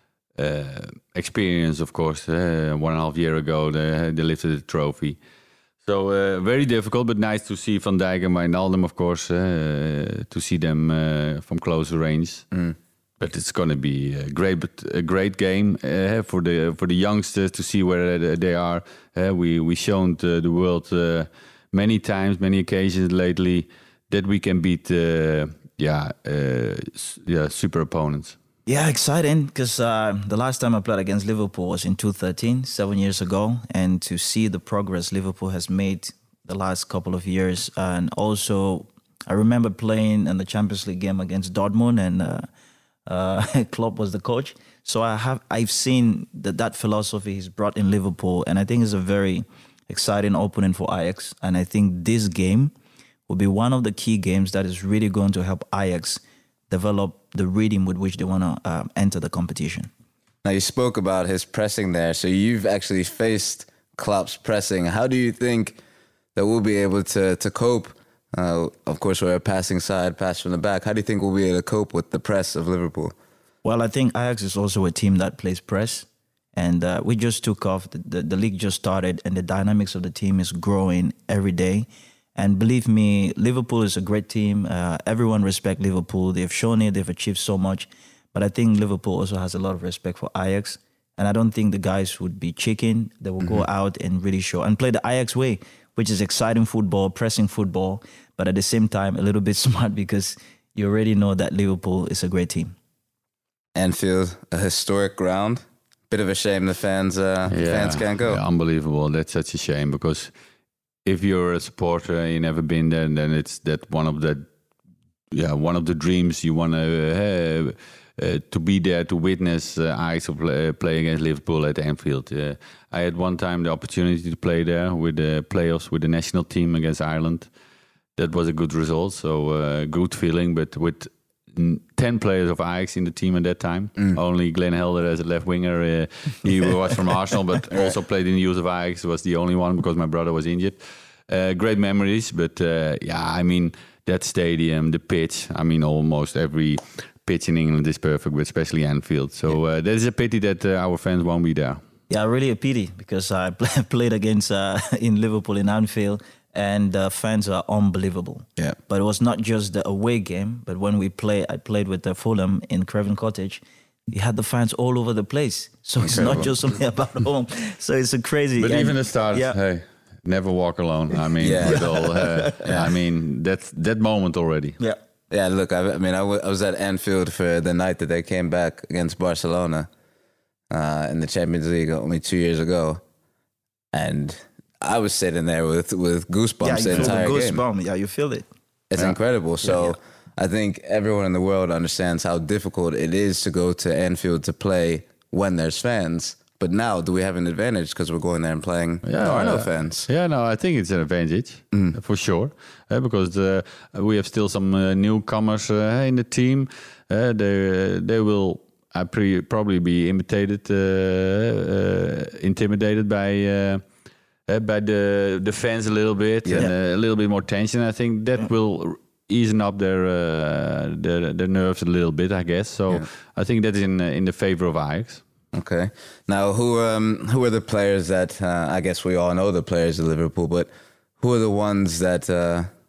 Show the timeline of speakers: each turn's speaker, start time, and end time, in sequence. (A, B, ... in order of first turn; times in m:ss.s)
0:00.4-0:05.2 A
0:05.8-0:12.5 A
0:13.2-0:28.4 A
0:28.7-0:42.5 B
0:43.1-0:52.7 B
0:53.3-0:59.9 B
1:00.4-1:05.8 C
1:06.4-1:13.2 C
1:13.6-1:42.8 B
1:43.8-1:48.4 C
1:47.5-1:50.3 A
1:51.0-1:54.5 A
1:55.3-2:07.5 A
2:08.2-2:31.8 A
2:32.1-2:49.6 B
2:46.0-2:46.5 C
2:48.6-2:54.8 A
2:51.4-2:51.9 C
2:51.6-2:52.9 B
2:55.3-2:59.9 C
3:00.7-3:03.0 C
3:03.9-3:07.6 C
3:06.6-3:08.5 B
3:08.9-3:20.1 C
3:19.0-3:33.8 A
3:21.7-3:22.0 C
3:34.5-3:45.2 A
3:36.4-3:36.7 C
3:45.5-3:52.7 C